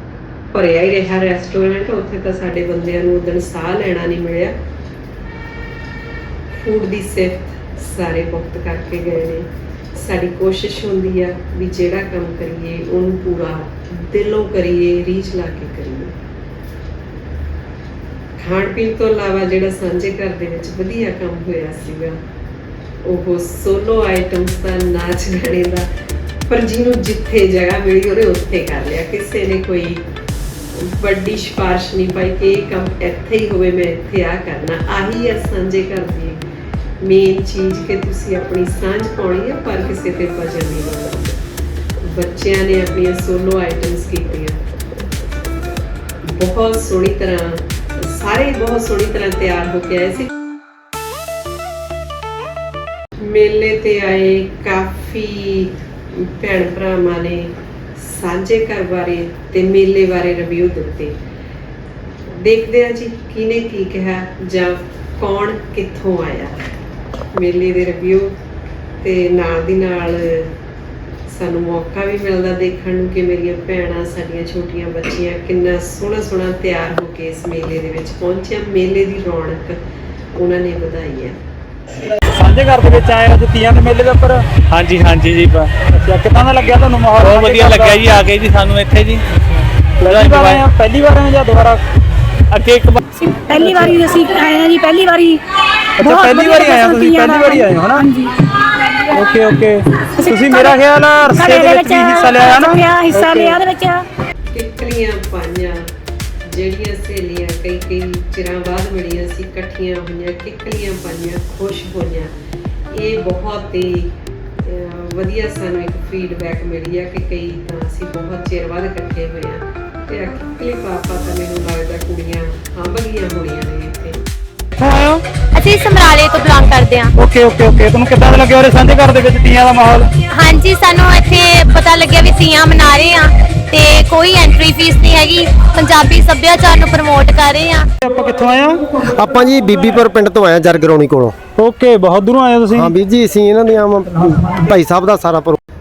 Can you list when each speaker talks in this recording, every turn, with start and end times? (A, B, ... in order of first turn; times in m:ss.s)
0:00.5-0:04.5 A
0:06.6-0:16.1 A
0:18.4-0:22.2 A
0:23.0-0:25.9 A
0:26.5-0:30.0 A
0:30.7-0:36.4 A
0:37.0-0:41.4 A
0:42.0-0:44.6 A
0:46.3-0:50.3 A
0:53.2-1:01.2 A
1:02.3-1:06.6 A
1:07.3-1:08.3 A
1:09.0-1:10.5 A
1:11.3-1:19.8 A
1:20.4-1:21.4 A
1:22.3-1:24.4 B
1:24.7-1:25.7 C
1:25.8-1:28.1 B
1:27.2-1:29.2 C
1:30.0-1:31.8 B
1:30.0-1:30.6 C
1:32.5-1:33.0 C
1:33.2-1:35.4 D
1:33.6-1:34.0 B
1:36.0-1:38.1 B
1:36.0-1:37.7 D
1:39.1-1:43.6 B
1:40.2-1:40.8 D
1:41.3-1:44.0 D
1:44.5-1:45.9 A
1:46.5-1:52.3 A
1:52.9-2:04.2 A
2:04.8-2:05.2 B
2:05.5-2:07.1 E
2:07.2-2:10.1 B
2:10.3-2:17.9 E
2:18.0-2:18.9 B
2:19.1-2:21.4 F
2:21.6-2:22.9 B
2:22.7-2:25.6 F